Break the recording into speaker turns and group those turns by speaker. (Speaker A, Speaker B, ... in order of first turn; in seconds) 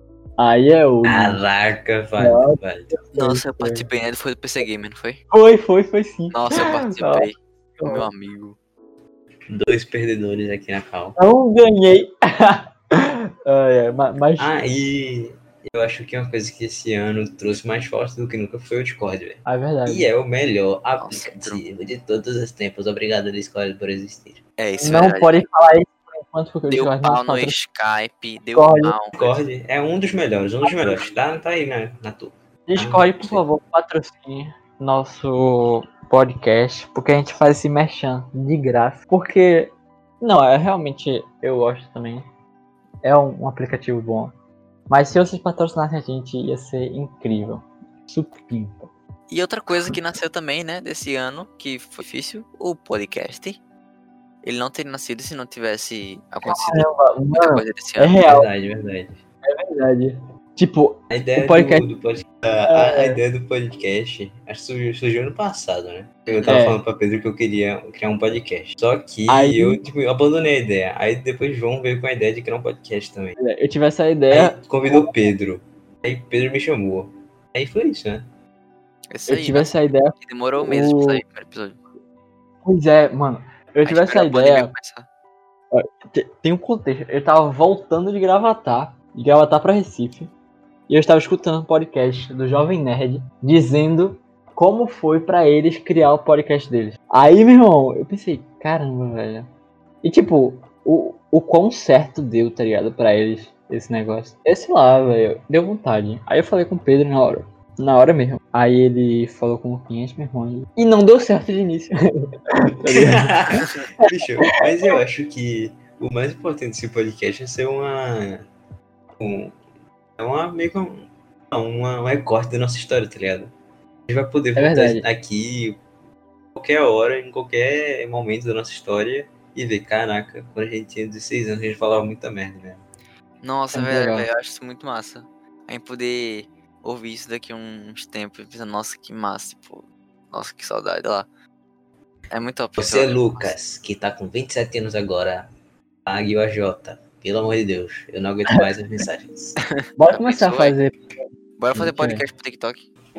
Speaker A: 0.4-1.4, 2.2-3.9, 5.3-8.1, 11.2-14.6, 19.4-20.1, 24.8-27.6, 28.6-28.9, 32.7-42.2, 43.0-44.3, 44.9-48.9, 56.4-58.5, 59.5-61.9, 62.7-63.2, 66.5-66.8, 69.3-69.8, 73.4-75.1, 79.3-81.2, 82.6-84.7, 85.7-90.3, 90.9-99.5, 100.0-111.9, 112.5-113.6, 124.6-125.0, 133.7-134.3, 150.0-151.0, 151.7-152.2
Speaker B: 1.1-2.9, 9.5-11.2, 14.4-24.4, 29.1-33.4, 58.2-59.2, 61.1-73.4, 74.3-78.3, 112.9-118.4, 119.2-119.5, 120.2-123.5, 124.1-125.8, 126.5-132.8, 142.8-145.5, 146.1-149.6
Speaker C: 3.1-5.2, 6.3-8.6, 21.0-21.6, 24.6-25.4, 26.7-29.4, 49.3-53.6, 54.4-58.2, 66.3-66.6, 79.1-81.8, 83.8-85.1, 133.4-141.3, 142.3-143.6, 149.7-150.7, 151.6-152.9